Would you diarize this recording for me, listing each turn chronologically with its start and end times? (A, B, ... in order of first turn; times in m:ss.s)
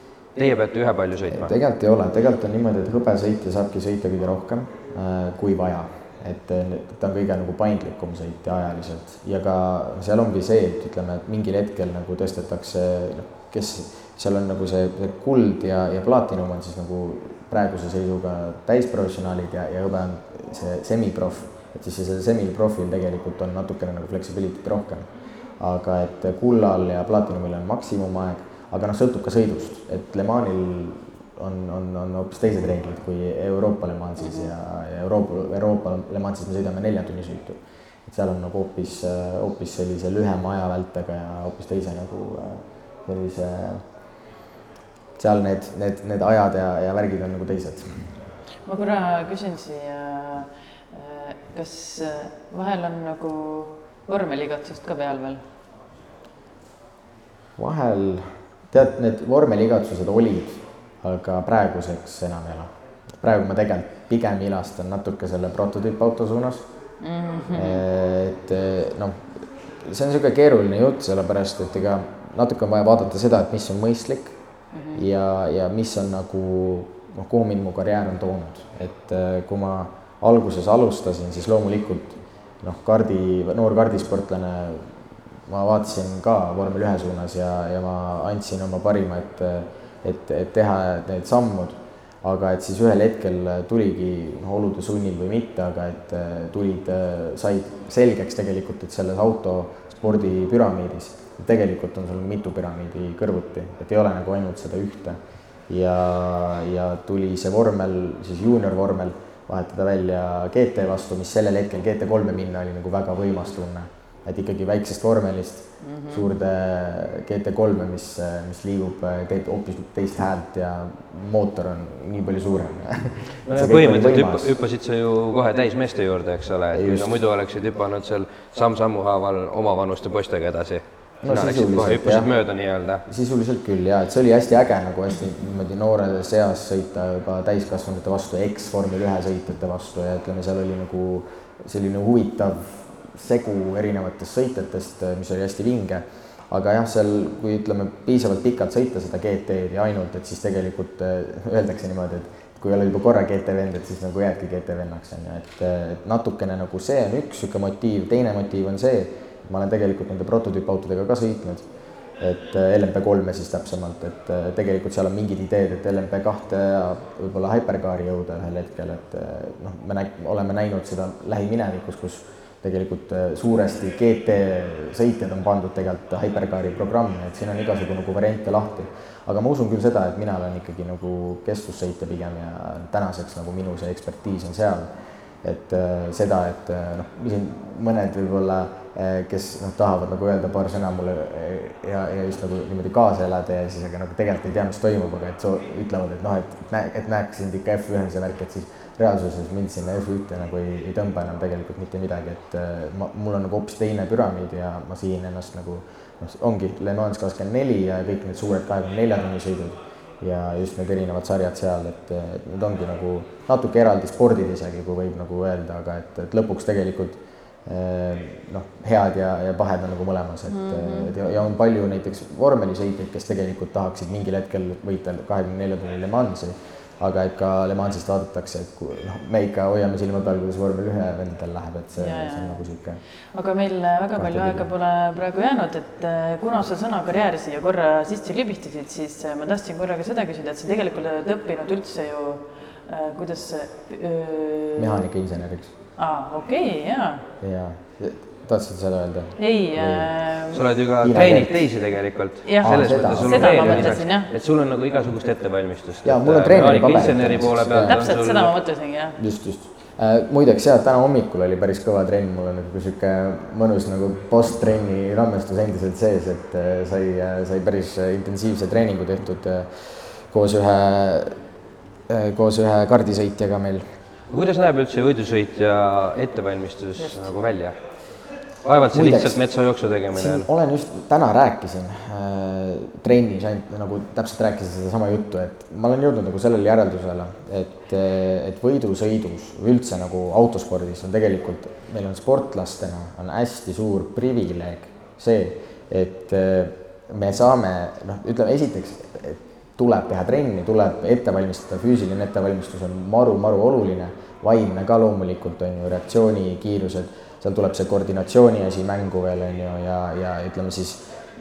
0:00.4-0:01.5 A
0:01.3-0:43.8 B
0:34.2-0:34.5 C
0:45.2-0:48.1 B
0:48.6-0:55.4 C
0:57.6-1:06.7 B
1:07.0-1:07.8 C
1:07.5-1:14.3 B
1:14.7-1:15.0 C
1:14.9-1:24.9 B
1:25.5-1:45.2 B
1:45.7-2:04.5 B
1:55.8-1:56.3 C
2:03.5-2:13.0 A
2:06.7-2:07.2 B
2:11.2-2:12.3 B
2:13.0-2:41.6 B
2:42.2-3:04.9 B
3:05.4-3:53.0 B
3:40.5-3:41.1 C
3:52.0-3:52.6 C
3:53.3-4:05.0 C
3:54.2-3:54.7 B
4:04.8-4:05.7 B
4:06.0-4:07.2 C
4:07.4-4:10.1 B
4:09.4-4:10.6 C
4:10.5-4:18.5 A
4:11.0-4:11.6 B
4:12.4-4:14.3 C
4:12.6-4:14.0 B
4:16.0-4:18.0 B
4:17.7-4:19.2 C
4:19.2-4:31.3 B
4:32.1-4:33.8 B
4:34.3-4:37.8 A
4:38.6-4:40.4 A
4:38.9-4:39.4 B
4:40.1-5:11.0 B